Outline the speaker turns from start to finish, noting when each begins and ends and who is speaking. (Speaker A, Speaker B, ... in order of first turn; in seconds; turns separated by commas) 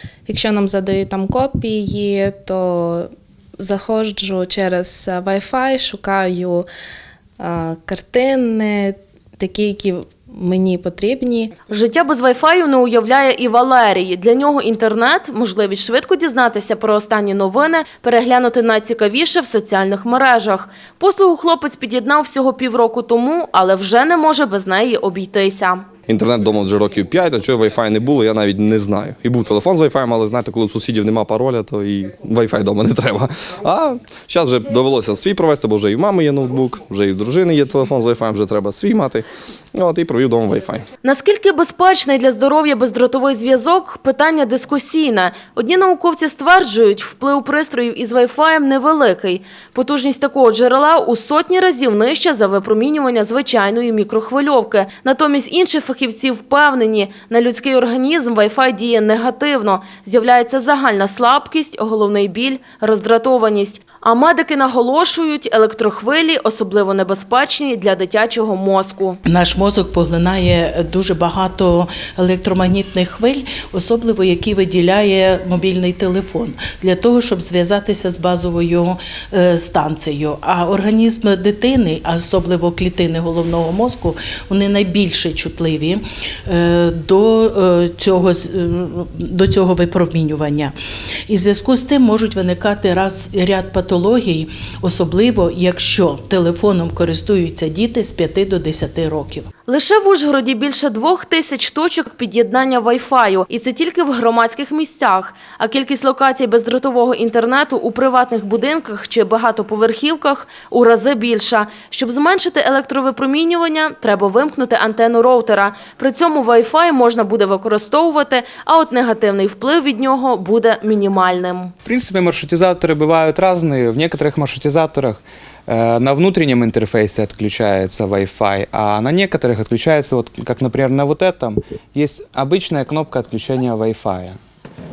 Speaker A: 0.3-6.7, Speaker A: 7.4-11.5, Speaker B: 11.7-25.9, Speaker C: 26.1-40.9, Speaker B: 41.0-69.2, Speaker D: 69.3-90.8, Speaker D: 91.3-99.5, Speaker B: 99.7-121.7, Speaker E: 121.8-134.4